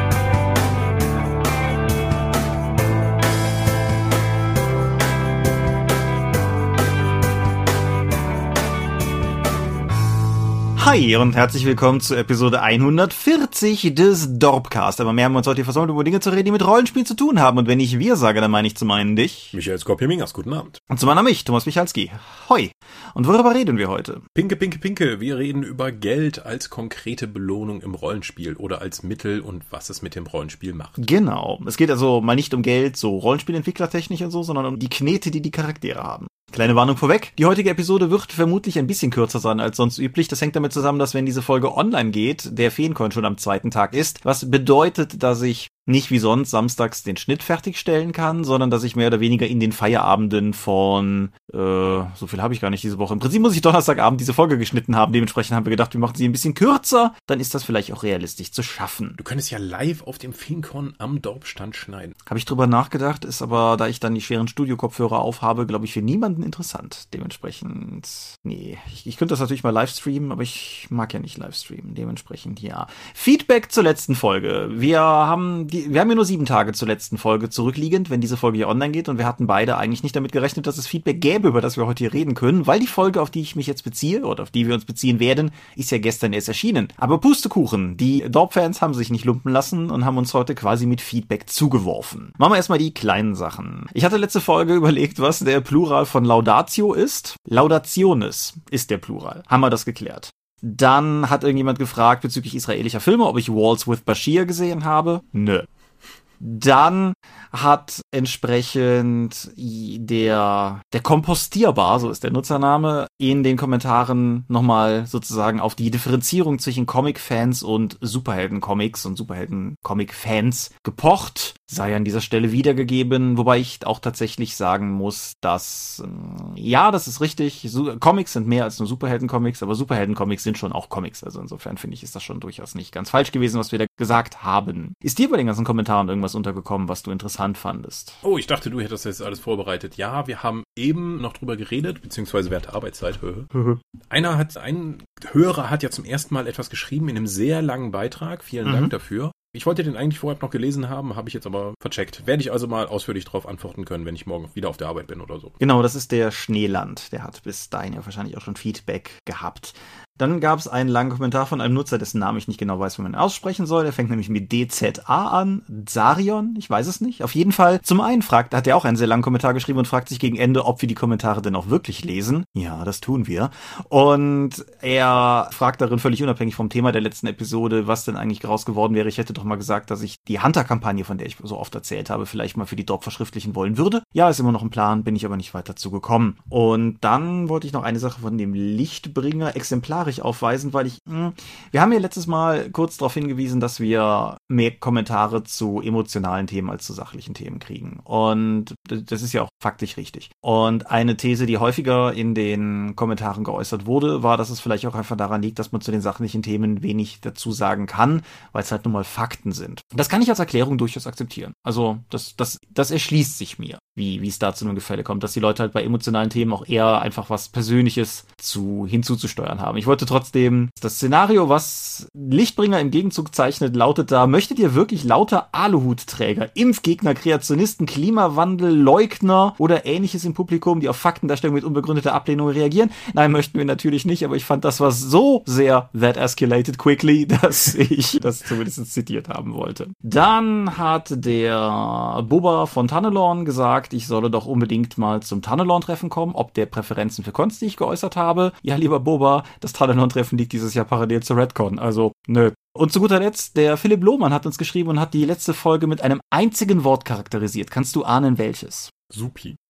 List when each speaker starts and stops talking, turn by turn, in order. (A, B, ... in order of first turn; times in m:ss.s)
0:10.8-0:19.5 A
0:19.5-0:20.8 B
0:20.9-0:24.2 A
0:24.3-0:31.0 B
0:31.0-0:59.2 A
0:59.2-1:02.2 B
1:02.3-1:45.7 A
1:46.4-2:18.2 A
2:18.2-2:23.5 B
2:23.5-2:23.8 A
2:24.1-2:35.5 B
2:28.6-2:28.9 A
2:35.6-4:18.9 A
4:19.1-4:19.6 B